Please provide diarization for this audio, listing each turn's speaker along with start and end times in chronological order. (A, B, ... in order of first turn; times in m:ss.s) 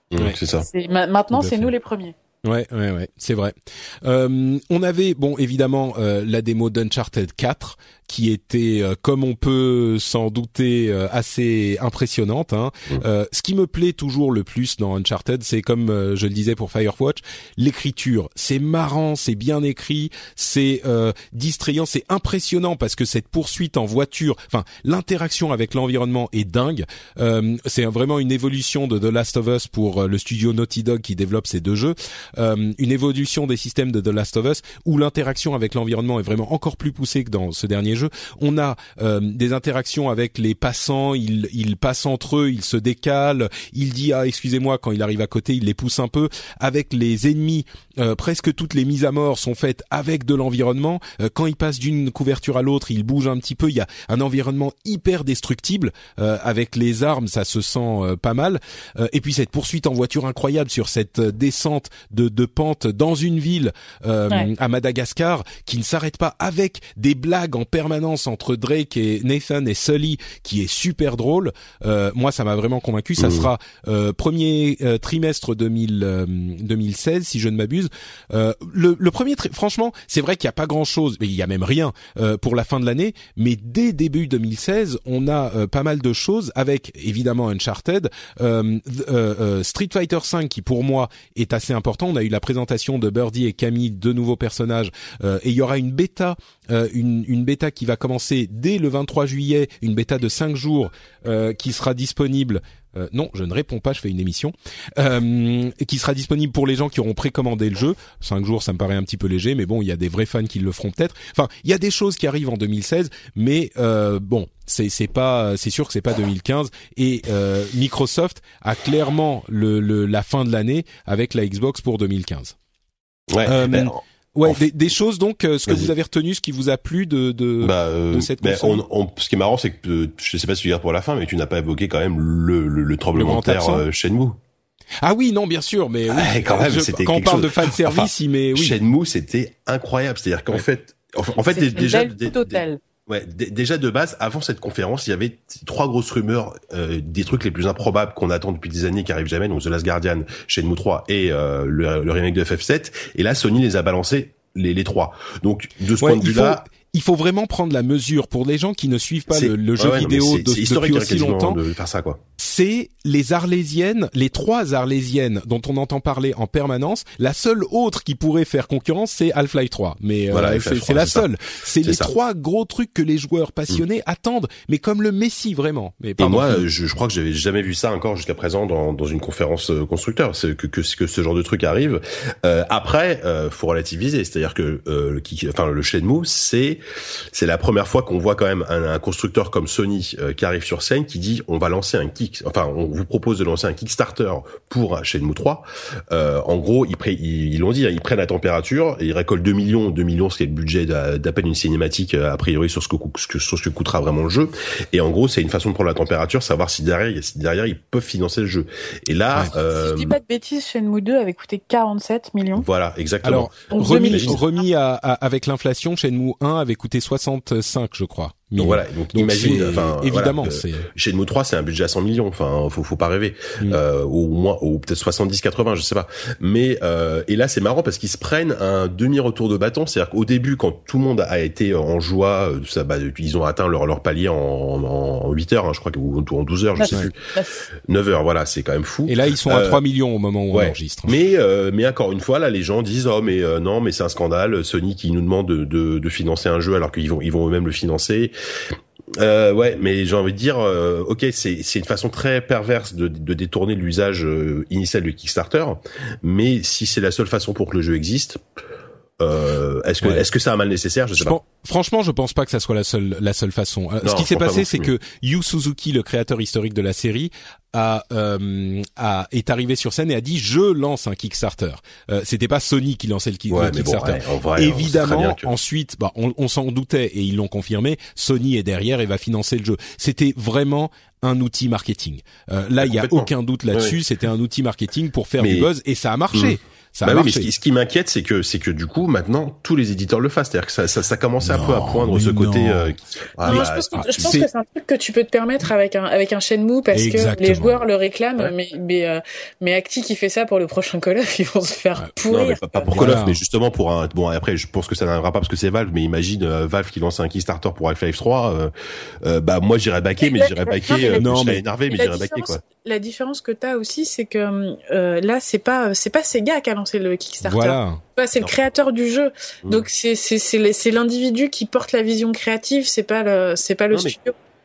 0:00.1-0:00.7 A
0:00.6-0:02.1 B
0:01.3-0:01.7 C
0:02.4-2:02.5 C
1:13.2-1:13.5 A
2:03.3-2:04.6 A
2:03.4-2:08.8 C
2:07.6-2:14.4 A
2:13.1-2:13.8 C
2:15.0-2:18.8 C
2:16.1-2:36.6 A
2:21.5-2:22.8 B
2:36.0-2:41.6 C
2:39.3-2:42.2 A
2:42.4-2:56.6 C
2:50.3-2:51.3 A
2:51.8-2:52.1 A
2:56.2-3:06.8 A
3:07.3-3:30.2 A
3:29.6-3:32.6 B
3:32.6-3:34.4 A
3:33.2-3:40.9 C
3:33.7-3:34.4 B
3:38.6-3:57.2 A
3:56.8-3:57.5 B
3:57.9-3:59.8 A
3:59.0-4:01.1 C
4:00.5-4:08.3 A
4:09.1-4:18.4 A
4:19.2-4:21.4 A
4:21.2-4:47.5 C
4:24.0-4:24.9 A
4:33.5-4:35.5 A
4:42.8-4:44.0 A
4:45.4-4:45.7 A
4:46.3-4:54.4 A
4:51.4-4:54.5 C
4:53.4-5:03.1 B
4:56.9-4:57.8 C
5:02.3-5:08.7 A
5:02.9-5:03.4 C
5:09.2-5:12.6 A
5:10.2-5:11.3 B
5:11.1-5:11.6 C
5:11.9-5:24.3 B
5:17.4-5:18.0 C